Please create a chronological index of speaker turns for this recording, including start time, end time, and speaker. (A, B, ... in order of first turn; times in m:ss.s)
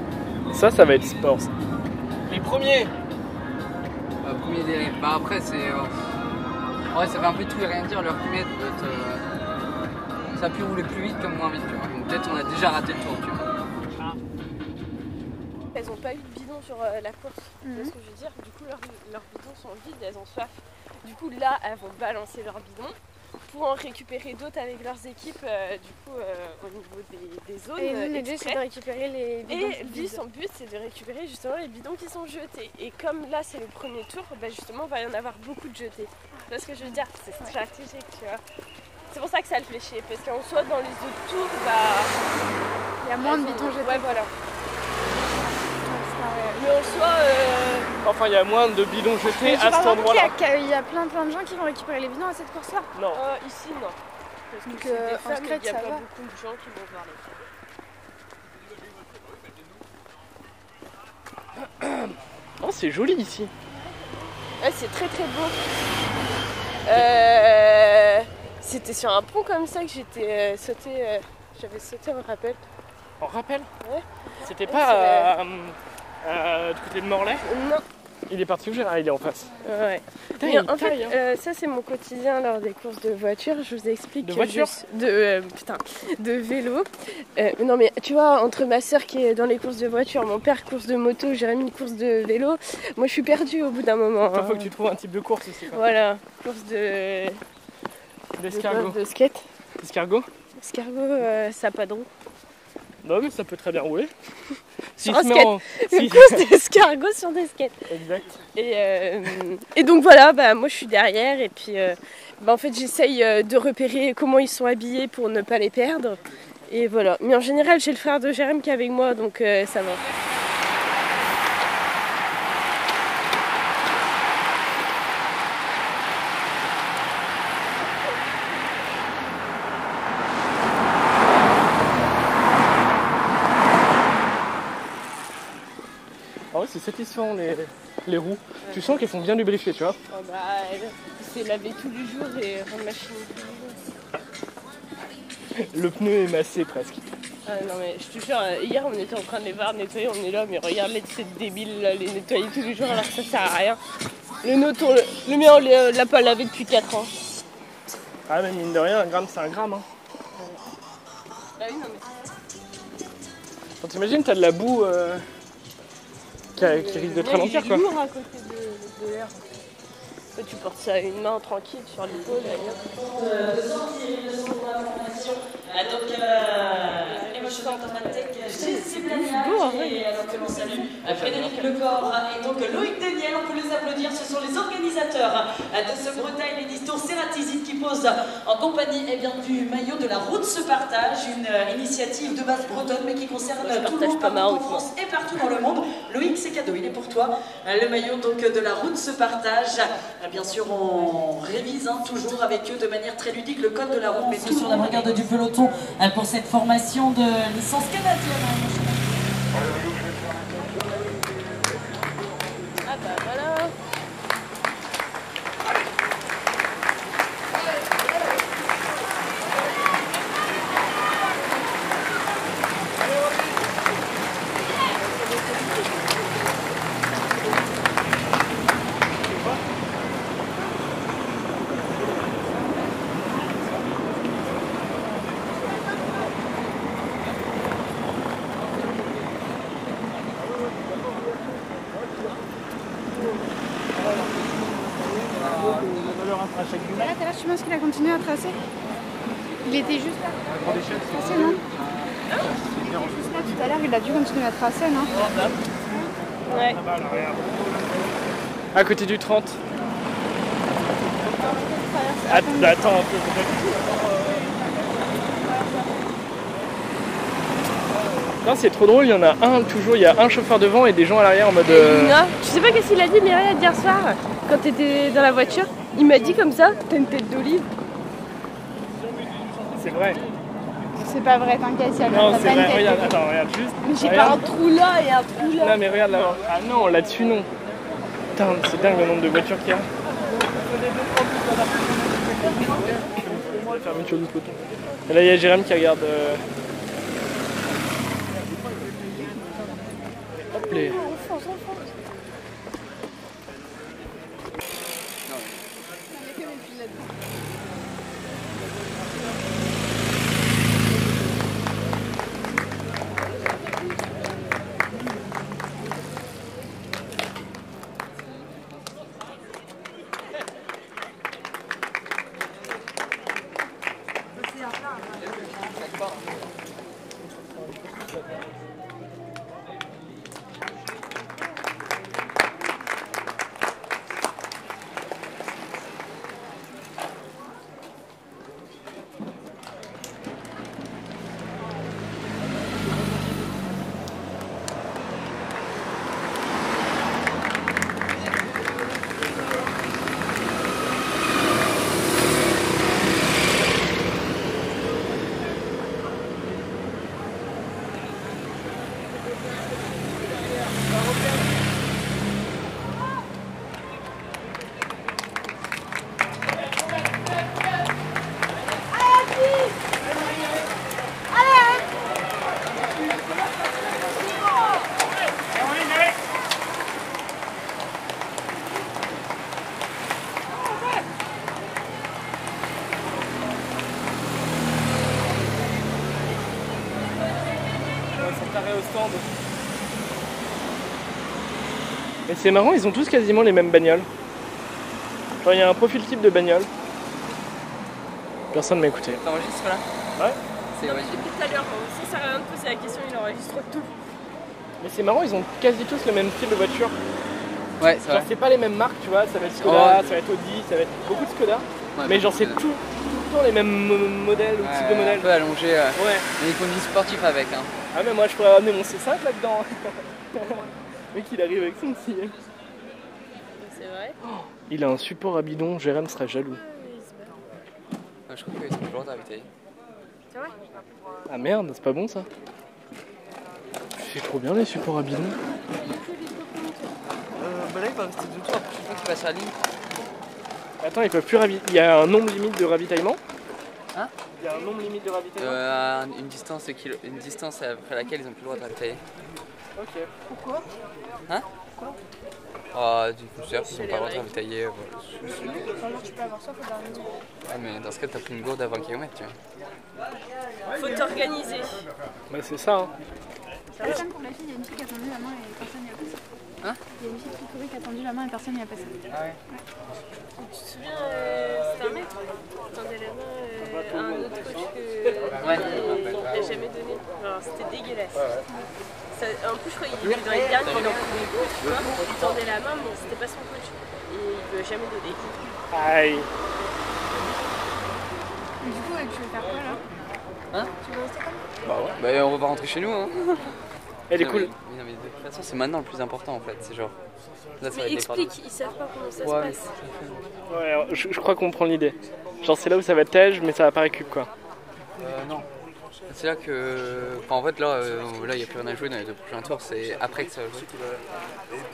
0:00.5-0:01.5 A
0:02.3-0:02.9 A
0:04.2-0:05.9 B
0:06.9-0:09.2 B
0:10.4-0:13.5 B
0:15.7-0:28.9 C
0:17.6-0:17.9 D
0:27.8-0:30.2 D
0:29.5-0:38.4 C
0:39.1-0:42.4 C
0:43.0-0:44.3 D
0:43.2-0:44.3 C
0:45.2-0:46.8 D
0:46.6-0:47.9 C
0:48.0-0:50.4 A
0:49.4-0:52.9 D
0:53.0-0:53.2 A
0:53.1-0:54.0 C
0:54.5-0:57.3 C
0:54.7-0:56.0 D
1:01.6-1:03.5 A
1:04.6-1:05.6 C
1:06.8-1:12.6 C
1:06.9-1:07.2 A
1:13.2-1:13.7 A
1:13.8-1:15.3 C
1:14.4-1:17.5 A
1:17.4-1:17.8 C
1:18.3-1:19.5 A
1:19.6-1:34.7 C
1:20.4-1:21.2 A
1:24.2-1:24.7 A
1:34.3-1:35.8 A
1:35.7-1:37.4 C
1:38.4-1:39.0 A
1:38.5-1:39.4 C
1:39.8-1:40.3 A
1:40.6-1:42.1 C
1:43.0-1:44.1 A
1:45.0-1:46.5 A
1:45.0-1:47.9 C
1:47.9-1:48.3 A
1:48.6-2:00.1 C
2:16.5-2:20.0 A
2:18.6-2:19.1 C
2:20.1-2:23.8 C
2:25.6-2:27.0 A
2:27.5-2:33.8 C
2:34.4-2:37.1 C
2:38.3-2:39.8 A
2:40.4-2:40.6 C
2:41.6-2:42.2 C
2:43.8-2:45.3 A
2:46.6-2:47.9 A
2:46.6-2:49.4 C
2:50.4-2:52.8 C
2:52.6-3:29.2 E
2:57.0-3:01.7 C
3:13.6-3:14.9 C
3:32.8-3:33.7 C
4:06.5-4:06.9 A
4:06.9-4:08.6 D
4:09.6-4:11.6 D
4:12.7-4:15.3 D
4:16.5-4:16.8 C
4:16.8-4:17.6 A
4:18.7-4:19.6 A
4:21.1-4:23.1 D
4:22.2-4:24.1 A
4:24.0-4:26.1 D
4:28.4-4:32.2 A
4:31.6-4:37.7 C
4:39.7-4:40.2 A
4:41.0-4:43.2 D
4:42.1-4:44.4 A
4:43.8-4:44.5 D
4:44.0-4:45.8 C
4:45.6-4:47.5 A
4:48.4-4:49.9 A
4:52.3-4:56.4 A
5:00.7-5:01.0 A
5:00.9-5:01.9 C
5:05.3-5:05.6 B
5:06.1-5:07.2 D
5:25.1-5:26.3 B
6:11.5-6:11.8 D
6:28.2-6:29.3 A
6:32.3-6:34.1 A
6:35.4-6:36.7 A
6:38.5-6:39.2 A
6:39.2-6:39.9 B
6:40.7-6:41.3 B
6:40.8-6:44.0 C
6:44.8-6:47.0 A
6:47.8-6:48.3 B
6:48.1-6:55.4 A
6:49.5-6:50.2 B
6:52.0-6:52.6 B
6:54.6-6:57.7 B
6:55.9-6:56.3 A
6:57.9-7:02.3 A
7:03.6-7:04.2 C
7:04.2-7:06.6 A
7:06.5-7:07.4 C
7:08.3-7:09.5 B
7:11.3-7:12.3 A
7:14.0-7:15.4 A
7:15.7-7:17.0 C
7:17.4-7:19.6 B
7:20.8-7:23.2 A
7:24.4-7:25.6 A
7:25.4-7:29.0 B
7:29.8-7:30.1 A
7:30.3-7:30.7 D
7:32.7-7:35.7 B
7:33.6-7:34.3 C
7:35.3-7:37.2 D
7:37.5-7:39.4 B
7:40.7-7:41.8 C
7:42.3-7:42.9 A
7:43.8-7:46.2 D
7:47.0-7:49.6 D
7:49.1-7:49.4 B
7:50.4-7:52.2 C
7:52.7-7:58.2 C
7:55.4-7:56.6 B
7:58.2-7:58.5 B
7:59.1-8:05.6 C
8:00.5-8:01.2 B
8:05.7-8:06.3 A
8:08.6-8:09.8 D
8:10.8-8:11.4 D
8:11.6-8:13.5 B
8:14.1-8:14.5 A
8:14.2-8:17.0 B
8:17.6-8:18.4 B
8:17.7-8:19.7 C
8:19.2-8:20.3 B
8:20.5-8:24.3 A
8:25.0-8:25.5 B
8:26.1-8:30.7 B